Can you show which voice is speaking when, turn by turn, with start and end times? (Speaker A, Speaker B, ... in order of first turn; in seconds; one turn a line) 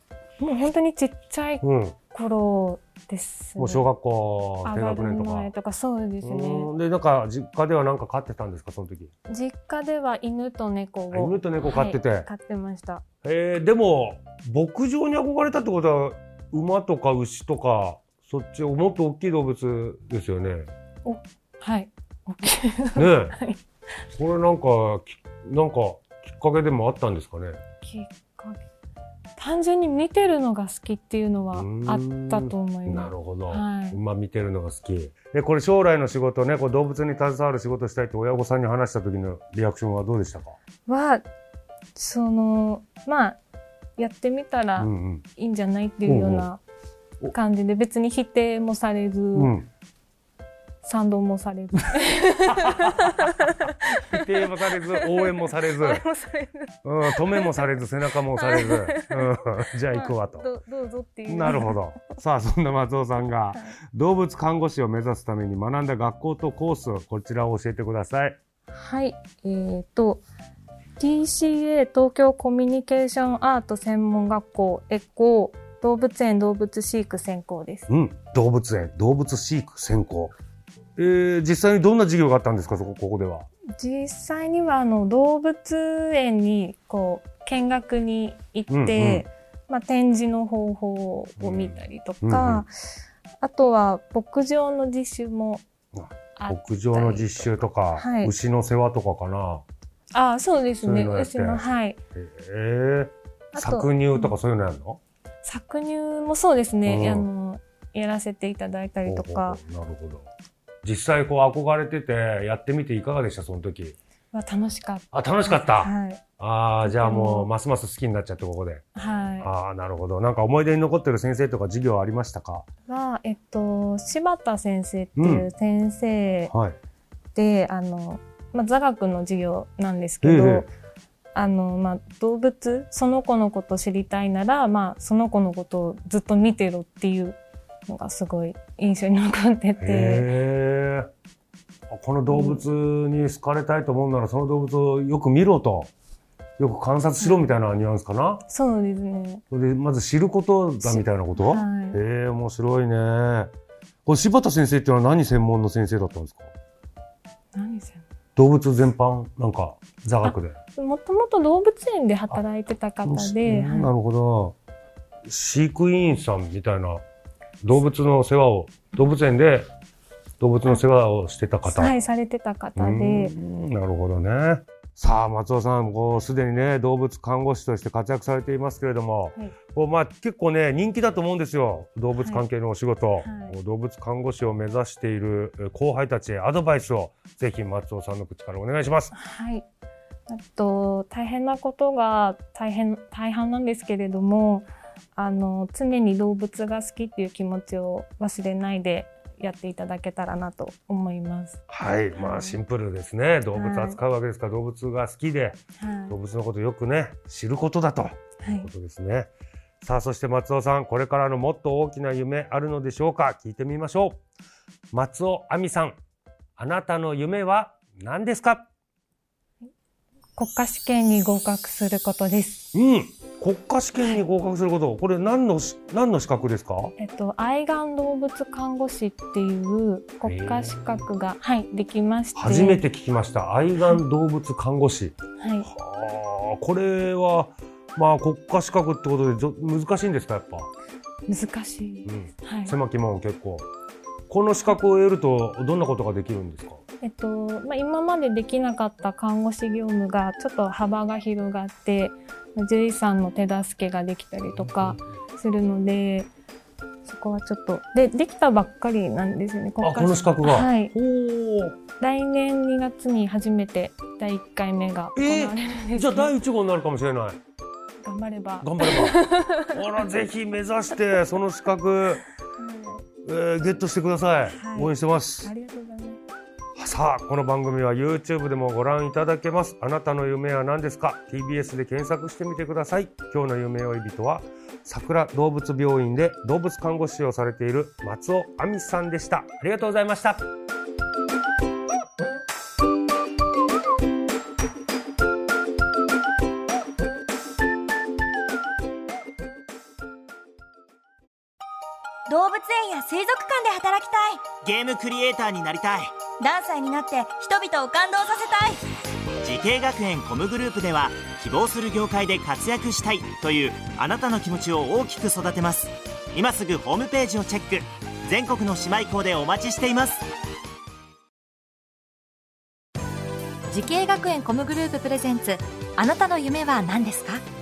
Speaker A: 0.4-3.9
Speaker B: 1.6-1.9
Speaker B: 3.6-5.5
Speaker A: 4.6-6.7
Speaker B: 6.2-9.1
Speaker A: 9.3-13.0
Speaker B: 11.1-12.3
Speaker B: 13.2-20.7
Speaker A: 21.0-23.6
Speaker B: 22.9-23.4
Speaker B: 24.1-27.6
Speaker A: 27.8-28.6
Speaker A: 29.4-34.0
Speaker B: 31.5-40.5
Speaker A: 40.9-41.2
Speaker A: 41.9-43.4
Speaker A: 44.0-46.6
Speaker B: 44.8-45.2
Speaker B: 46.0-46.5
Speaker A: 47.3-49.5
Speaker B: 49.3-49.7
Speaker A: 50.8-54.2
Speaker B: 52.5-53.3
Speaker B: 54.0-56.0
Speaker A: 54.7-57.7
Speaker B: 56.8-60.5
Speaker A: 58.3-59.3
Speaker A: 59.9-61.8
Speaker B: 61.3-68.4
Speaker A: 68.7-70.2
Speaker A: 71.0-77.9
Speaker B: 77.9-80.3
Speaker B: 81.0-83.5
Speaker A: 83.8-92.7
Speaker B: 88.7-89.2
Speaker B: 91.4-92.6
Speaker A: 93.4-95.6
Speaker B: 96.0-99.6
Speaker A: 96.3-98.3
Speaker A: 100.1-102.0
Speaker B: 100.8-101.6
Speaker B: 102.2-105.0
Speaker A: 103.5-104.3
Speaker A: 105.4-109.6
Speaker B: 106.8-107.3
Speaker B: 109.0-110.3
Speaker B: 110.8-114.0
Speaker A: 114.3-116.2
Speaker B: 115.1-118.8
Speaker A: 116.8-117.5
Speaker A: 118.9-119.5
Speaker B: 119.4-122.7
Speaker A: 122.9-126.5
Speaker B: 125.2-125.5
Speaker B: 126.5-126.8
Speaker A: 127.3-130.7
Speaker B: 130.2-130.7
Speaker A: 131.3-140.3
Speaker B: 139.8-141.1
Speaker B: 141.9-145.9
Speaker A: 142.3-142.6
Speaker B: 146.6-148.4
Speaker A: 147.2-147.4
Speaker A: 148.5-149.4
Speaker B: 149.5-153.5
Speaker A: 150.8-152.0
Speaker B: 154.1-156.5
Speaker A: 157.5-158.0
Speaker B: 158.3-160.6
Speaker A: 160.2-163.9
Speaker B: 163.0-164.6
Speaker B: 165.3-167.0
Speaker B: 167.6-169.7
Speaker B: 170.4-171.9
Speaker A: 171.7-173.3
Speaker B: 172.8-189.1
Speaker A: 182.2-182.4
Speaker A: 183.2-183.5
Speaker A: 189.1-189.7
Speaker A: 190.3-201.6
Speaker B: 201.7-205.6
Speaker A: 202.2-202.6
Speaker A: 203.5-204.0
Speaker A: 205.8-206.2
Speaker B: 206.1-209.3
Speaker A: 208.4-208.7
Speaker B: 209.8-214.2
Speaker B: 214.9-215.9
Speaker B: 216.6-218.7
Speaker A: 220.3-222.7
Speaker B: 222.7-226.9
Speaker A: 227.0-232.8
Speaker B: 230.2-231.0
Speaker B: 232.3-235.1
Speaker A: 235.4-235.7
Speaker B: 235.6-240.7
Speaker A: 241.3-242.8
Speaker B: 242.1-243.7
Speaker B: 244.3-246.8
Speaker A: 247.0-256.3
Speaker B: 254.6-255.0
Speaker A: 257.0-260.9
Speaker B: 259.8-261.8
Speaker A: 262.0-266.3
Speaker B: 265.1-267.4
Speaker A: 268.0-269.8
Speaker B: 268.6-272.2
Speaker A: 272.6-273.1
Speaker B: 273.2-275.5
Speaker A: 274.4-276.2
Speaker B: 276.8-290.4
Speaker C: 302.3-304.5
Speaker D: 304.6-306.1
Speaker C: 306.4-308.8
Speaker D: 309.4-320.2
Speaker E: 323.7-327.4